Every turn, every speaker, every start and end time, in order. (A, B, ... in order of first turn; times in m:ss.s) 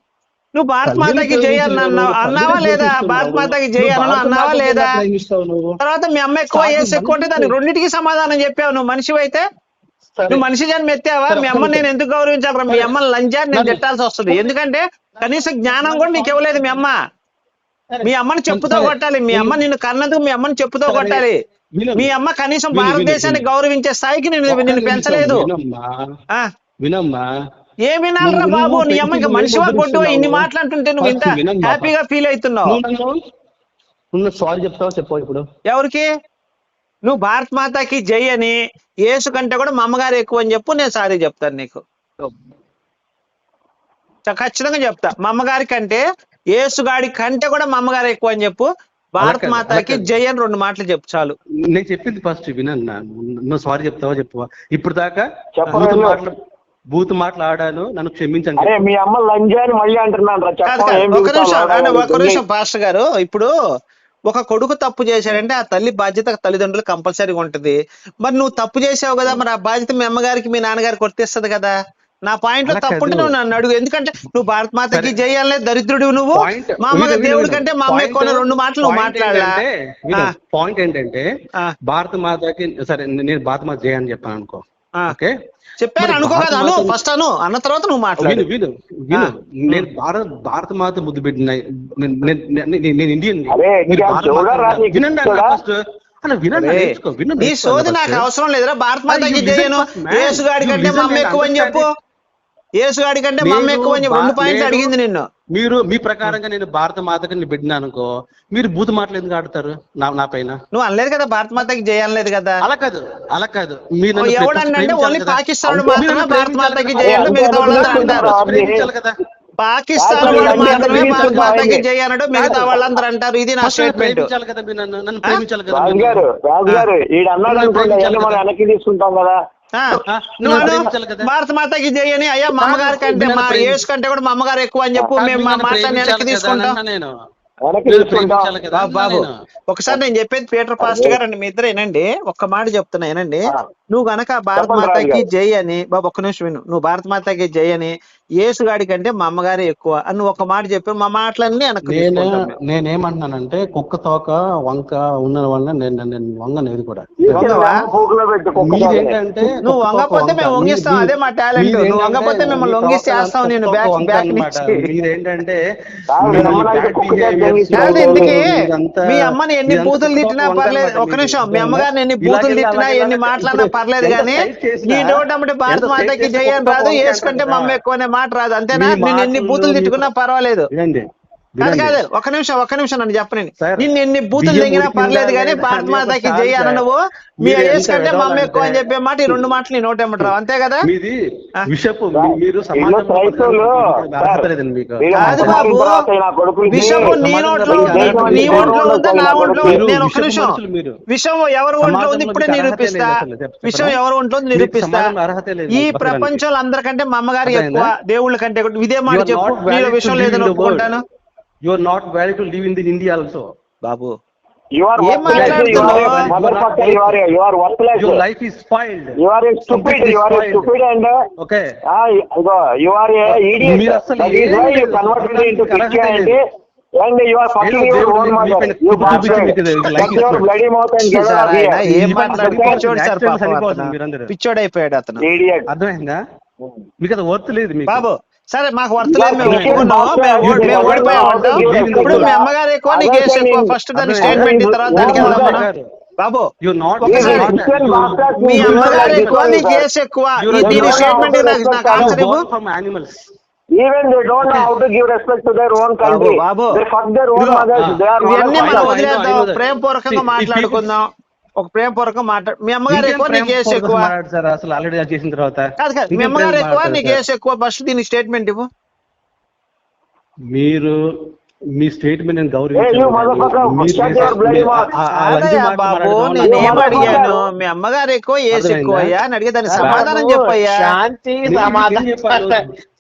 0:00.6-0:05.0 A
0:00.8-0:05.8 B
0:05.8-0:09.4 A
0:06.5-0:07.6 B
0:10.1-0:10.4 B
0:10.3-0:17.0 A
0:11.3-0:11.9 B
0:13.5-0:14.4 B
0:15.2-0:16.9 B
0:17.9-0:19.6 B
0:18.0-0:21.4 A
0:20.9-0:22.1 B
0:22.0-0:25.5 A
0:22.7-0:23.5 B
0:24.5-0:26.0 B
0:26.8-0:27.3 B
0:27.9-0:32.8 A
0:28.2-0:30.5 B
0:31.0-0:31.9 B
0:32.6-0:33.2 B
0:34.1-0:35.4 B
0:35.7-0:36.1 A
0:37.0-0:41.8 A
0:44.3-0:46.0 A
0:46.6-0:51.4 A
0:49.2-0:50.1 B
0:51.7-0:56.4 B
0:55.6-0:56.2 C
0:56.9-0:58.8 B
0:58.6-1:02.4 C
1:00.7-1:03.5 A
1:04.3-1:11.8 A
1:12.3-1:19.6 A
1:12.6-1:13.4 B
1:14.9-1:15.2 B
1:16.3-1:21.3 B
1:21.8-1:25.4 B
1:25.8-1:28.4 A
1:26.0-1:27.0 B
1:28.2-1:38.3 B
1:29.1-1:29.9 A
1:33.5-1:35.6 C
1:36.5-1:41.9 A
1:39.1-1:41.9 B
1:42.8-1:45.3 A
1:43.4-1:44.9 B
1:45.5-1:50.6 B
1:50.7-1:52.6 A
1:52.6-1:59.2 B
1:54.2-1:58.3 A
1:57.0-1:58.9 C
1:59.6-2:04.3 A
2:00.0-2:02.9 C
2:00.2-2:01.6 B
2:03.6-2:06.8 B
2:05.7-2:09.4 C
2:07.4-2:08.4 B
2:09.8-2:16.8 A
2:10.1-2:11.3 B
2:12.6-2:13.8 B
2:15.2-2:17.1 B
2:17.6-2:18.5 C
2:17.9-2:19.4 B
2:18.7-2:32.5 A
2:20.8-2:21.2 C
2:24.6-2:25.3 C
2:31.9-2:37.6 B
2:37.2-2:39.2 C
2:37.3-2:37.8 A
2:38.6-2:45.6 B
2:39.6-2:44.9 A
2:46.1-2:48.4 C
2:46.2-2:57.8 B
2:47.8-2:48.5 A
2:49.1-3:00.7 A
2:58.7-3:00.1 B
3:00.7-3:01.1 B
3:01.6-3:02.0 B
3:01.6-3:10.9 A
3:03.6-3:06.9 B
3:07.4-3:09.3 B
3:10.2-3:15.7 B
3:12.1-3:14.5 C
3:15.0-3:19.8 C
3:15.2-3:16.0 A
3:16.7-3:20.6 A
3:16.7-3:18.8 B
3:19.6-3:21.0 B
3:21.1-3:25.1 A
3:21.8-3:24.0 B
3:24.5-3:26.4 B
3:25.7-3:31.0 A
3:27.4-3:27.9 B
3:29.1-3:30.9 B
3:31.6-3:33.5 B
3:33.8-3:34.2 A
3:34.8-3:38.2 C
3:35.0-3:36.3 A
3:35.3-3:37.2 B
3:38.0-3:39.2 B
3:39.2-3:41.2 C
3:39.7-3:40.7 B
3:41.4-3:41.7 B
3:41.9-3:46.4 C
3:43.3-3:46.4 B
3:47.0-3:52.8 C
3:47.6-3:50.5 B
3:51.0-3:55.2 A
3:51.8-3:54.3 B
3:55.2-3:55.7 C
3:55.7-3:56.2 B
3:57.0-3:58.1 B
3:57.9-4:05.7 A
3:59.0-4:05.6 C
3:59.4-3:59.9 B
4:00.4-4:02.3 B
4:04.0-4:05.9 B
4:06.2-4:07.6 A
4:06.6-4:09.5 B
4:07.0-4:09.9 C
4:08.4-4:12.4 A
4:10.4-4:11.4 B
4:10.5-4:12.2 C
4:11.9-4:13.2 B
4:13.7-4:19.0 C
4:14.4-4:14.7 B
4:16.0-4:16.8 A
4:17.4-4:17.7 A
4:17.8-4:20.9 B
4:18.2-4:21.0 A
4:21.6-4:24.1 A
4:22.9-4:27.2 B
4:25.8-4:28.7 A
4:30.5-4:31.0 B
4:31.8-4:37.2 B
4:32.8-4:34.9 C
4:35.1-4:40.8 A
4:36.4-4:37.4 C
4:38.5-4:39.2 B
4:39.7-4:42.6 D
4:39.8-4:40.1 B
4:41.5-4:42.6 B